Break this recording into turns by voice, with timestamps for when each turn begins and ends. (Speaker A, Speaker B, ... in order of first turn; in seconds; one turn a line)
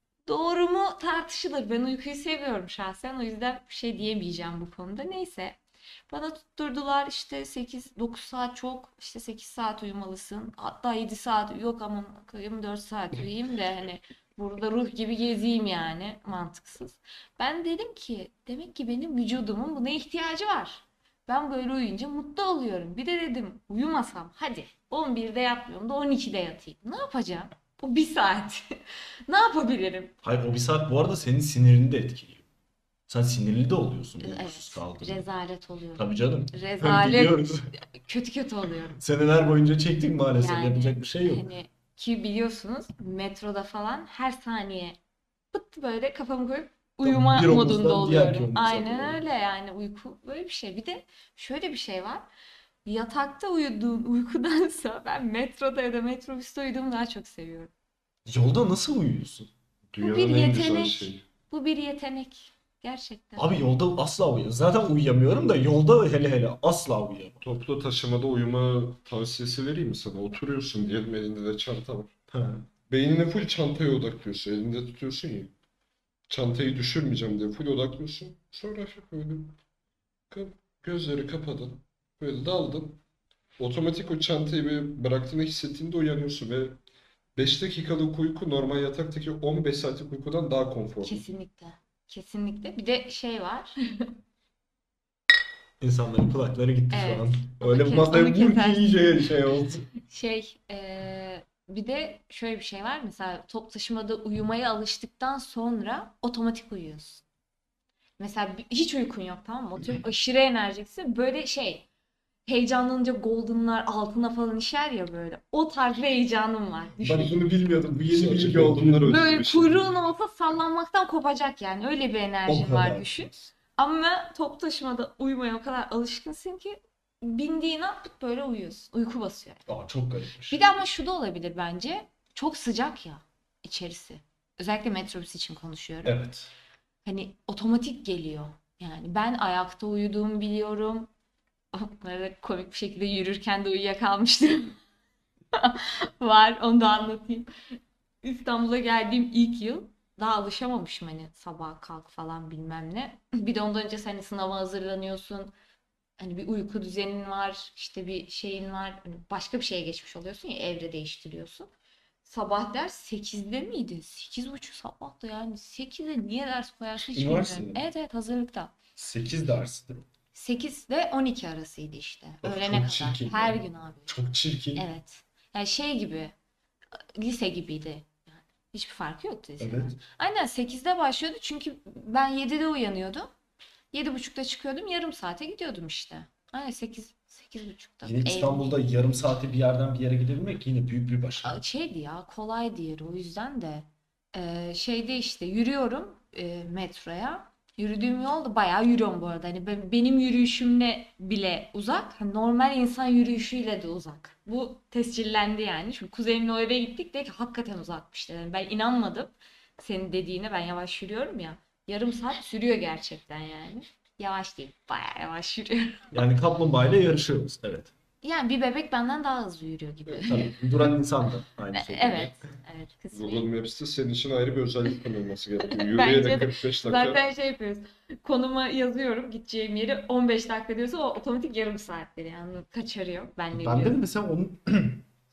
Speaker A: 0.3-5.6
Speaker A: 6.1-28.8
Speaker A: 29.3-30.1
Speaker B: 30.2-32.4
Speaker B: 33.1-35.2
Speaker A: 34.2-39.0
Speaker B: 36.0-37.7
Speaker B: 39.0-41.5
Speaker A: 40.4-45.0
Speaker A: 45.5-52.3
Speaker B: 47.0-49.2
Speaker A: 52.9-57.7
Speaker B: 58.3-59.5
Speaker C: 59.9-61.2
Speaker A: 60.0-63.5
Speaker B: 63.4-67.4
Speaker C: 67.4-72.1
Speaker B: 72.3-72.7
Speaker C: 72.9-75.5
Speaker C: 76.3-79.6
Speaker C: 80.3-83.0
Speaker C: 83.6-86.8
Speaker C: 87.4-91.2
Speaker A: 91.0-94.1
Speaker B: 95.8-99.9
Speaker A: 96.9-99.3
Speaker A: 100.0-107.2
Speaker A: 108.2-111.9
Speaker A: 112.5-117.4
Speaker B: 117.0-119.2
Speaker C: 118.1-119.9
Speaker A: 119.1-129.6
Speaker B: 122.5-123.4
Speaker B: 129.7-130.6
Speaker A: 130.5-136.2
Speaker B: 136.0-136.5
Speaker A: 137.1-141.1
Speaker A: 141.7-144.8
Speaker A: 145.5-147.5
Speaker A: 148.2-155.5
Speaker A: 156.2-161.7
Speaker A: 162.2-168.8
Speaker B: 167.1-167.8
Speaker B: 169.0-170.1
Speaker A: 170.3-174.2
Speaker B: 172.4-174.9
Speaker A: 174.8-176.3
Speaker A: 177.2-183.3
Speaker B: 179.6-180.0
Speaker A: 183.9-188.8
Speaker B: 188.0-191.6
Speaker A: 191.4-216.1
Speaker B: 216.1-217.9
Speaker A: 218.2-220.6
Speaker B: 220.3-222.4
Speaker A: 221.7-223.5
Speaker C: 223.1-227.2
Speaker A: 225.7-234.0
Speaker B: 233.5-235.0